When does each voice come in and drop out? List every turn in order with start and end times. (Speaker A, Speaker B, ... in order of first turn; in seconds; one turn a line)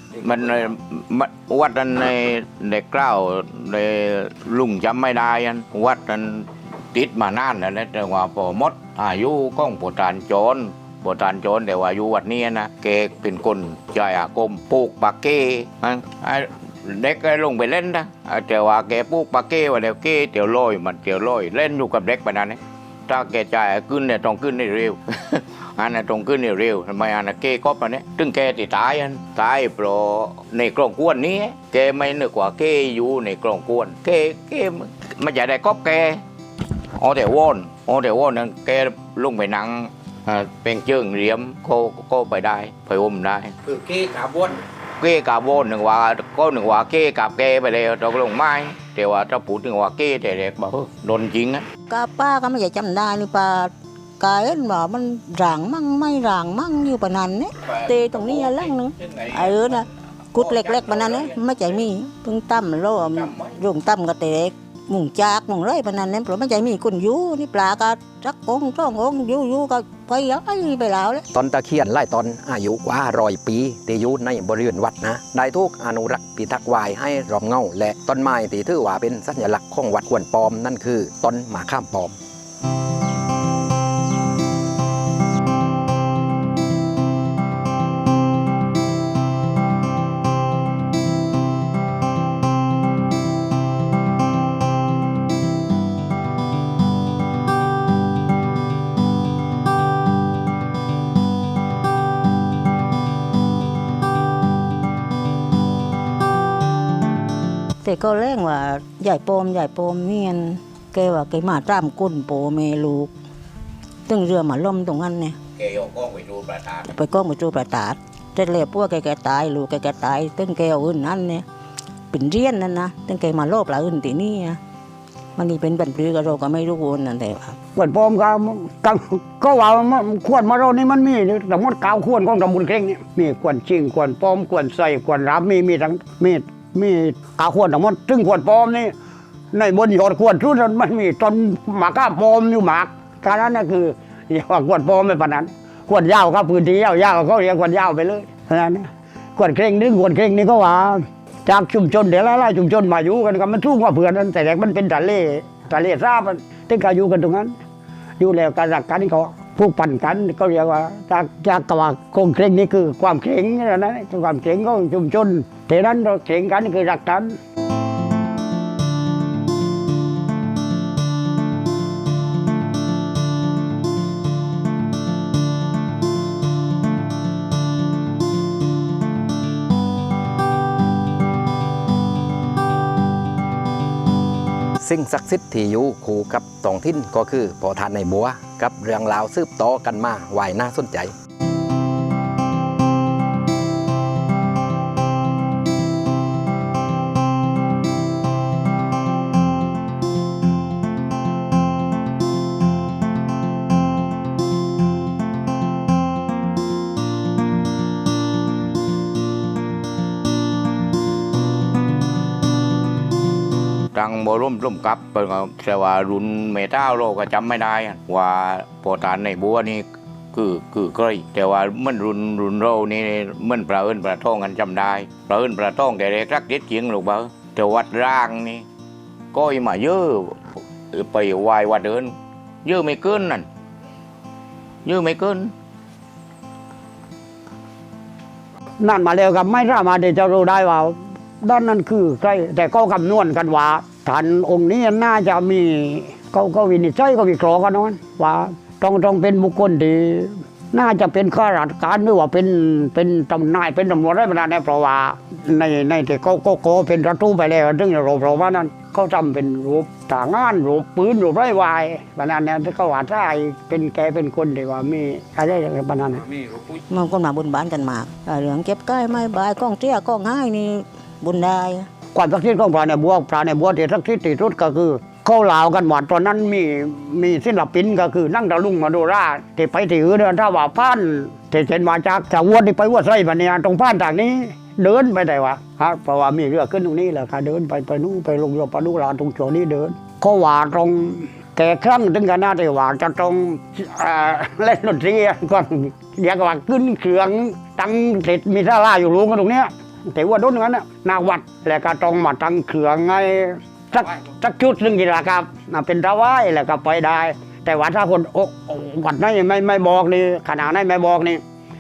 Speaker A: 0.2-36.2
Speaker A: 37.0-51.7
Speaker B: 51.9-71.2
Speaker A: 57.7-61.4
Speaker A: 63.0-63.5
Speaker C: 71.3-82.1
Speaker B: 107.8-113.1
Speaker B: 114.1-115.4
Speaker A: 115.6-116.9
Speaker B: 116.9-121.5
Speaker B: 122.1-124.6
Speaker B: 125.4-127.6
Speaker D: 127.8-138.9
Speaker D: 139.5-157.5
Speaker D: 158.2-167.3
Speaker C: 184.8-191.1
Speaker A: 213.9-228.7
Speaker A: 229.3-230.4
Speaker A: 230.9-233.5
Speaker A: 234.8-235.5
Speaker D: 238.8-266.3
Speaker B: 266.9-271.9
Speaker D: 272.1-311.4